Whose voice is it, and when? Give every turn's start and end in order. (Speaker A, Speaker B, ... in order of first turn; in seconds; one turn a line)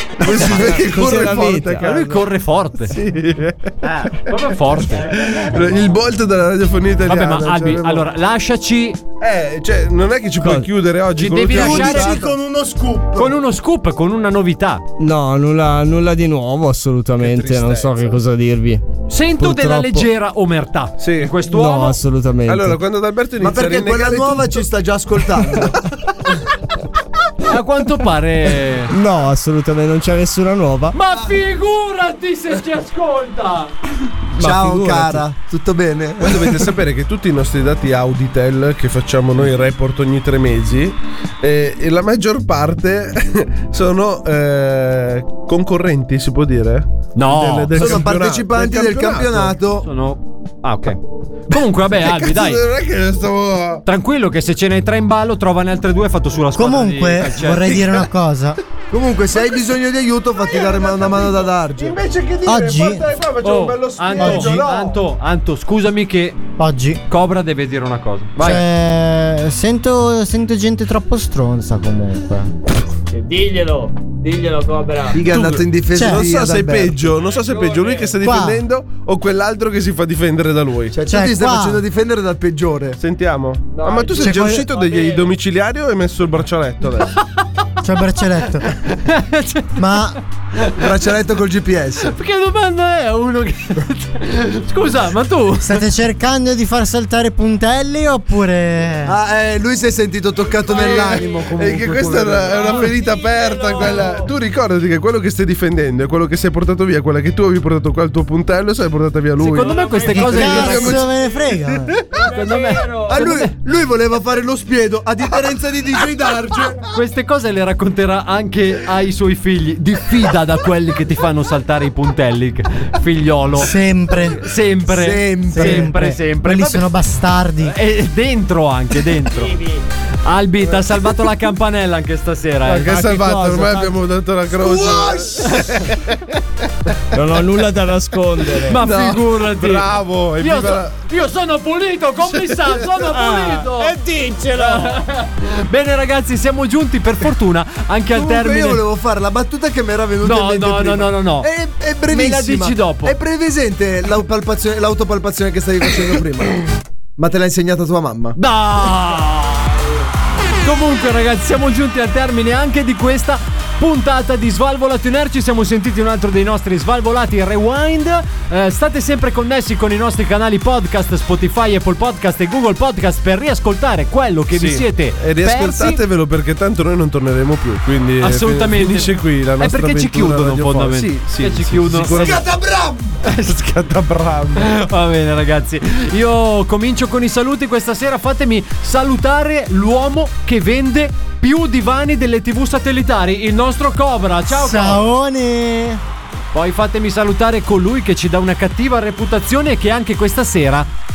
Speaker A: 0.2-2.2
Speaker B: 0.2-2.0
Speaker C: 1.8-3.0
Speaker A: 2.8-4.2
Speaker C: 4.3-5.1
Speaker A: 4.7-8.1
Speaker C: 7.1-9.0
Speaker A: 9.2-12.3
Speaker B: 10.4-10.7
Speaker C: 11.2-12.2
Speaker D: 11.5-13.3
Speaker C: 13.2-14.8
Speaker B: 15.0-18.8
Speaker A: 17.2-18.2
Speaker C: 19.1-22.0
Speaker B: 19.4-20.1
Speaker A: 21.0-21.4
Speaker B: 21.4-22.8
Speaker A: 22.5-24.6
Speaker D: 23.4-25.8
Speaker C: 27.5-28.9
Speaker B: 28.9-30.9
Speaker C: 30.9-33.7
Speaker B: 34.4-35.3
Speaker D: 34.4-36.6
Speaker A: 36.2-49.6
Speaker C: 47.2-47.9
Speaker D: 47.7-49.9
Speaker C: 49.8-52.6
Speaker A: 52.0-53.8
Speaker C: 53.9-57.6
Speaker E: 56.6-58.6
Speaker A: 57.6-58.1
Speaker D: 58.9-62.0
Speaker A: 60.5-65.0
Speaker E: 62.5-63.0
Speaker C: 63.4-66.4
Speaker E: 64.2-64.6
Speaker E: 66.6-67.0
Speaker C: 67.1-68.6
Speaker E: 68.4-72.5
Speaker B: 73.1-75.4
Speaker D: 75.1-77.1
Speaker A: 75.3-81.0
Speaker B: 77.1-78.2
Speaker E: 78.2-78.6
Speaker D: 80.9-83.0
Speaker E: 81.1-81.8
Speaker A: 83.0-87.2
Speaker B: 83.7-85.3
Speaker E: 87.8-88.7
Speaker C: 88.8-89.8
Speaker E: 89.8-90.2
Speaker D: 90.8-92.1
Speaker C: 92.0-95.8
Speaker E: 95.6-99.2
Speaker D: 99.0-102.7
Speaker A: 100.8-109.9
Speaker B: 102.8-104.3
Speaker C: 109.4-111.0
Speaker B: 109.6-110.9
Speaker E: 110.1-112.0
Speaker D: 110.2-110.8
Speaker A: 110.6-110.9
Speaker B: 112.1-113.3
Speaker C: 112.2-113.5
Speaker D: 113.1-116.8
Speaker C: 116.9-123.7
Speaker E: 123.5-124.4
Speaker C: 124.4-126.9
Speaker D: 124.9-126.0
Speaker E: 125.5-127.8
Speaker C: 127.6-129.6
Speaker B: 129.4-129.8
Speaker C: 130.2-133.0
Speaker A: 132.7-136.2
Speaker B: 132.9-134.0
Speaker B: 137.1-138.8
Speaker C: 138.7-139.9
Speaker A: 138.8-141.0
Speaker C: 140.4-144.0
Speaker A: 142.3-142.8
Speaker B: 143.1-145.0
Speaker C: 144.5-148.8
Speaker D: 148.1-156.6
Speaker C: 150.2-151.5
Speaker C: 152.1-153.2
Speaker D: 157.2-158.4
Speaker C: 158.4-159.9
Speaker C: 160.6-176.0
Speaker A: 174.5-182.5
Speaker C: 178.2-182.4
Speaker D: 182.1-183.2
Speaker C: 183.2-183.6
Speaker A: 183.4-184.7
Speaker C: 184.6-195.1
Speaker E: 194.5-196.0
Speaker C: 196.5-200.9